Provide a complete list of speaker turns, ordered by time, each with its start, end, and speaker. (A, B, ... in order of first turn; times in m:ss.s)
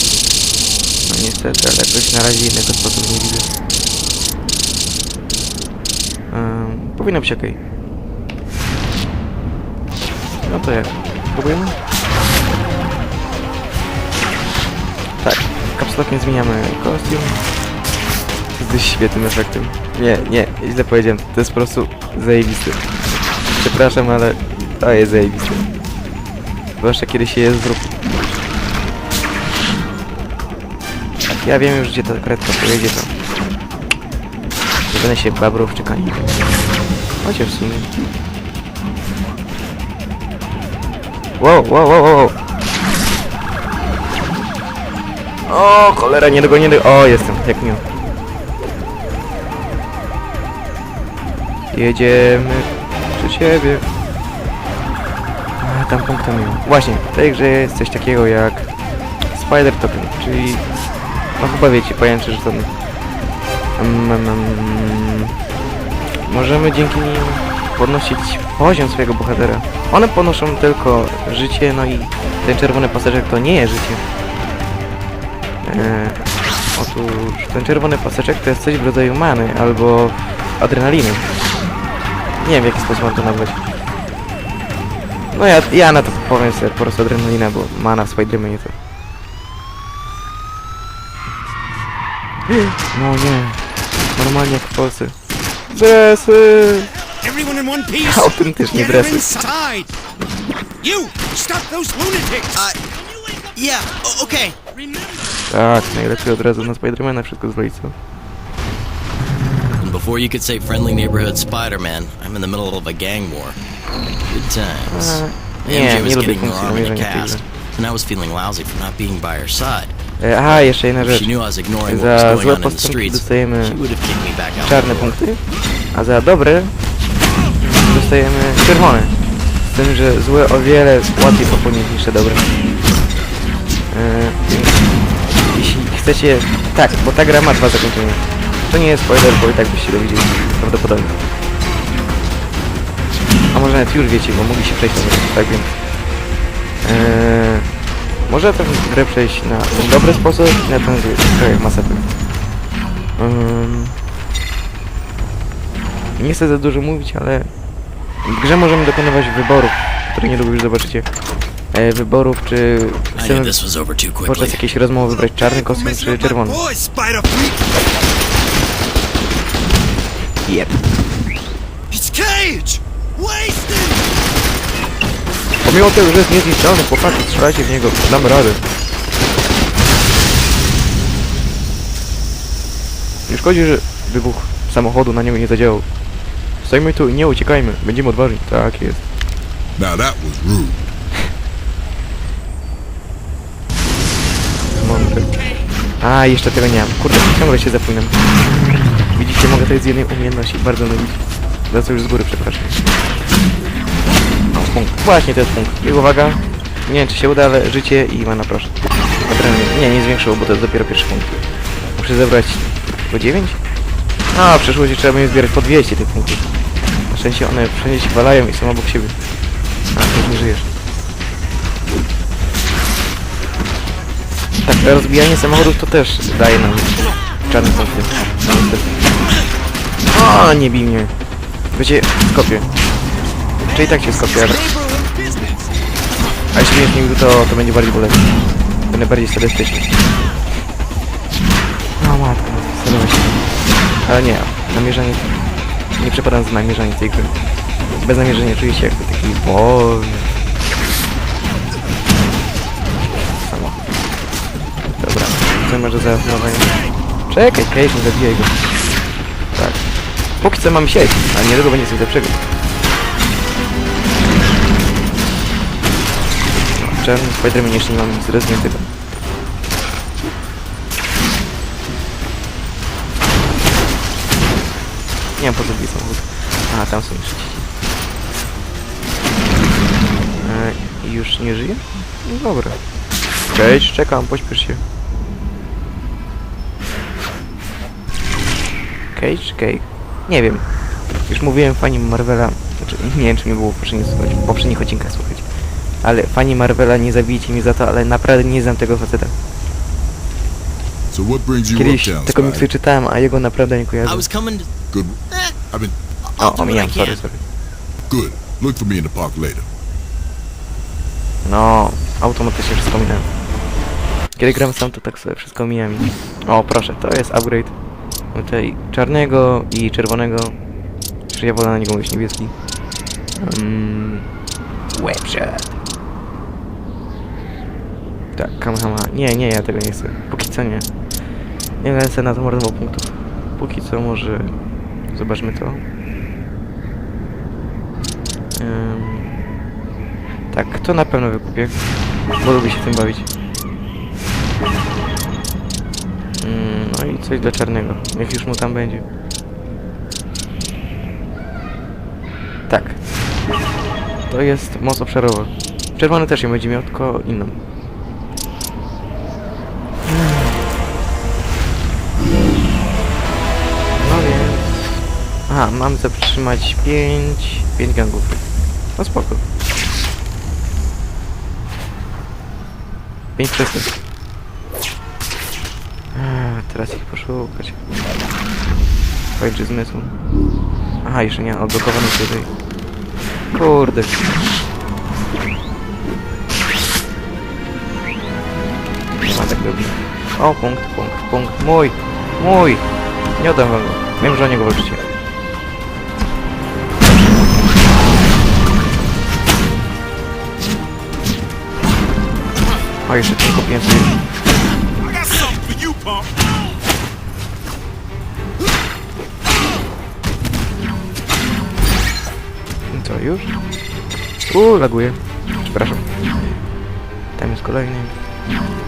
0:01.0-0:03.5 A
0:06.3-0:07.6 A
0:10.4-0:11.7 A
0:15.2-0:17.4 A
0:18.5-0:22.9 A
0:23.5-0:25.6 A
0:26.8-0:28.3 A
0:31.3-0:33.1 A
0:34.9-0:36.3 A
0:37.2-0:37.9 A
0:41.4-0:42.3 A
0:45.5-0:47.8 A
0:51.7-0:53.8 A
0:55.6-0:58.7 A
0:59.3-1:00.7 A
1:01.4-1:02.7 A
1:03.8-1:05.3 A
1:06.2-1:14.0 A
1:15.6-1:21.3 A
1:22.4-1:23.6 A
1:25.3-1:28.7 A
1:32.5-1:33.6 A
1:34.2-1:35.1 A
1:35.7-1:36.9 A
1:37.2-1:39.9 B
1:38.0-1:39.3 A
1:40.8-1:42.5 B
1:43.5-1:44.6 C
1:45.5-1:47.9 A
1:49.8-1:53.6 C
1:54.3-1:59.9 C
1:54.9-1:57.4 A
2:00.2-2:01.3 A
2:00.5-2:05.1 C
2:01.8-2:03.8 A
2:04.6-2:05.4 A
2:05.9-2:06.7 A
2:07.7-2:12.5 A
2:13.9-2:14.8 A
2:15.5-2:21.2 A
2:23.5-2:25.7 A
2:26.8-2:27.7 A
2:28.3-2:32.0 A
2:33.2-2:34.0 A
2:36.2-2:37.5 A
2:38.2-2:41.1 A
2:41.7-2:43.6 A
2:43.2-2:44.6 C
2:44.2-2:46.6 A
2:45.2-2:47.7 B
2:50.4-2:50.8 A
2:51.9-2:54.1 B
2:55.6-2:58.7 A
3:03.3-3:05.8 A
3:06.6-3:09.0 A
3:09.8-3:10.8 D
3:14.7-3:15.3 A
3:16.0-3:18.2 A
3:19.1-3:22.8 A
3:24.5-3:31.4 A
3:31.9-3:33.6 A
3:34.3-3:36.4 A
3:37.1-3:39.1 A
3:39.9-3:40.7 A
3:44.6-3:48.9 A
3:50.1-3:51.1 A
3:51.7-3:52.7 A
3:53.7-3:54.6 A
3:54.6-3:55.6 B
3:56.5-3:58.3 A
3:58.9-4:00.0 A
4:02.0-4:03.4 A
4:04.0-4:05.4 A
4:06.0-4:07.3 A
4:08.0-4:10.3 A
4:13.4-4:13.8 A
4:15.0-4:16.7 A
4:17.3-4:18.6 A
4:19.5-4:19.8 A
4:20.4-4:22.4 A
4:26.7-4:28.9 A
4:35.4-4:37.7 A
4:40.4-4:42.8 A
4:43.5-4:44.8 A
4:49.1-4:50.6 A
4:51.3-4:55.4 A
4:56.0-4:59.3 A
5:01.1-5:02.7 D
5:01.7-5:04.3 A
5:04.0-5:04.7 C
5:04.9-5:05.2 D
5:05.3-5:05.6 C
5:05.7-5:06.0 D
5:06.2-5:07.2 C
5:06.4-5:07.4 A
5:08.1-5:09.6 D
5:11.4-5:13.3 A
5:14.4-5:17.7 A
5:18.3-5:20.6 A
5:21.3-5:22.5 A
5:23.4-5:24.2 A
5:24.9-5:25.8 A
5:28.4-5:30.9 A
5:31.8-5:34.5 A
5:35.1-5:35.8 A
5:38.6-5:39.4 A
5:40.5-5:41.7 A
5:42.4-5:43.3 A
5:46.4-5:49.0 A
5:52.7-5:53.0 A
5:54.3-5:57.6 A
6:00.1-6:00.6 A
6:03.9-6:08.4 A
6:09.0-6:09.4 A
6:13.4-6:13.9 A
6:16.1-6:17.8 A
6:19.4-6:20.1 A
6:21.0-6:22.5 A
6:23.5-6:24.2 A
6:29.2-6:32.8 A
6:33.4-6:35.0 A
6:43.0-6:44.2 A
6:45.0-6:46.2 B
6:52.9-6:53.5 A
6:54.5-6:56.1 A
6:57.4-6:58.2 A